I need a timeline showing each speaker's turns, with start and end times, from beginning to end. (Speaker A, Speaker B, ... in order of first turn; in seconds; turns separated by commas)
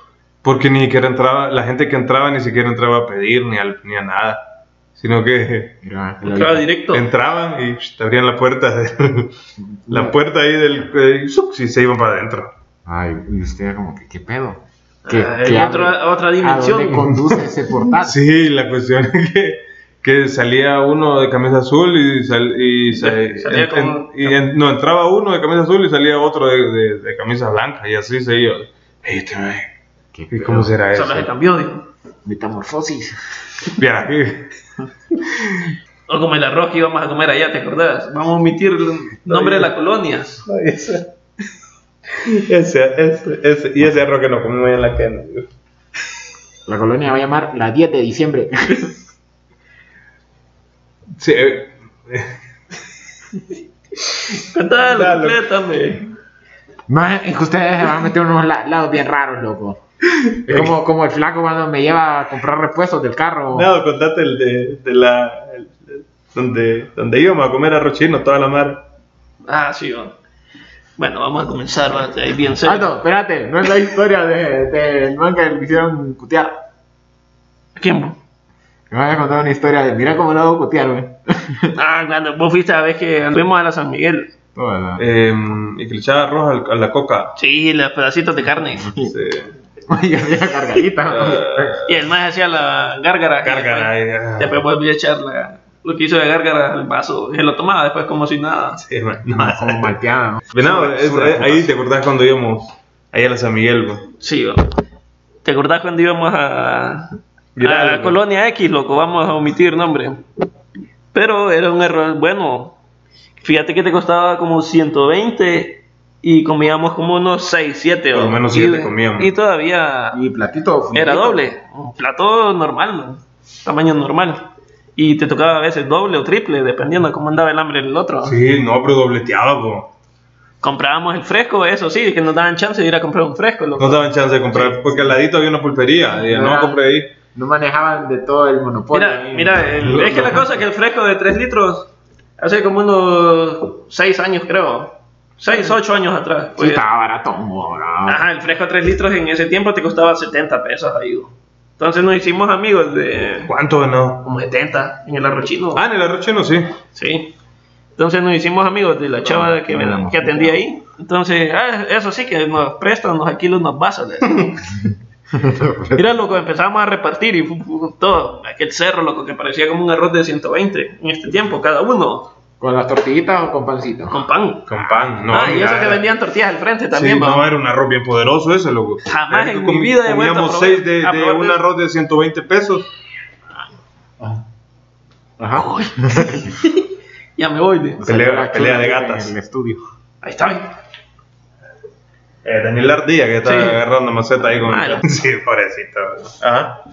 Speaker A: 0.4-4.4, Speaker A: 5.0-5.8, Speaker B: 5.8-6.7, Speaker C: 6.2-7.0, Speaker A: 6.9-9.3, Speaker B: 9.7-10.1, Speaker A: 9.9-12.5, Speaker B: 12.9-18.2, Speaker C: 15.1-17.1, Speaker A: 17.9-29.7, Speaker C: 22.9-24.4, Speaker B: 30.1-30.7, Speaker A: 30.3-31.3, Speaker C: 30.9-31.9, Speaker B: 32.2-33.2, Speaker A: 33.8-34.5, Speaker A: 35.3-35.7, Speaker C: 36.1-40.4, Speaker A: 39.2-39.7, Speaker A: 40.5-41.1, Speaker A: 42.2-45.5, Speaker B: 46.7-48.9, Speaker A: 51.2-52.4, Speaker C: 54.4-56.0, Speaker A: 54.9-55.4, Speaker B: 56.9-59.8, Speaker B: 60.5-63.7, Speaker A: 60.5-60.7, Speaker A: 63.5-68.8, Speaker C: 69.5-70.1, Speaker C: 71.0-72.9, Speaker B: 72.6-76.6, Speaker C: 77.8-78.2, Speaker B: 78.9-81.8, Speaker C: 81.7-84.3, Speaker B: 84.5-85.0, Speaker A: 85.0-87.3, Speaker C: 87.4-88.9, Speaker B: 88.8-89.1, Speaker A: 89.1-89.5, Speaker B: 89.9-91.8, Speaker A: 91.1-92.0, Speaker C: 91.9-98.8, Speaker A: 93.4-94.6, Speaker A: 98.8-100.0, Speaker B: 99.2-101.7, Speaker A: 100.5-104.1, Speaker C: 104.2-104.7, Speaker C: 105.4-110.2, Speaker A: 107.5-108.2, Speaker C: 111.1-112.8, Speaker C: 113.4-120.2, Speaker A: 118.1-119.3, Speaker B: 120.1-121.5, Speaker C: 120.9-128.4, Speaker A: 128.2-129.9, Speaker C: 130.6-135.1, Speaker A: 133.8-137.1, Speaker B: 136.1-140.5, Speaker C: 138.9-146.8, Speaker A: 139.9-140.3, Speaker B: 146.6-148.2, Speaker C: 148.1-153.5, Speaker A: 153.4-154.3, Speaker C: 154.2-155.8, Speaker A: 155.7-156.8, Speaker C: 156.9-157.3, Speaker C: 158.0-164.7, Speaker B: 159.2-160.6, Speaker B: 165.3-166.1, Speaker C: 165.9-172.3, Speaker B: 172.6-174.2, Speaker C: 174.1-177.5, Speaker A: 174.7-176.1, Speaker A: 176.9-182.9, Speaker C: 179.1-181.6, Speaker B: 184.2-184.4, Speaker B: 185.4-186.5, Speaker C: 185.6-186.9, Speaker C: 187.4-188.0, Speaker B: 188.0-189.8, Speaker A: 188.1-189.3, Speaker C: 190.2-190.8, Speaker A: 192.4-196.8, Speaker C: 193.4-193.8, Speaker C: 194.6-195.0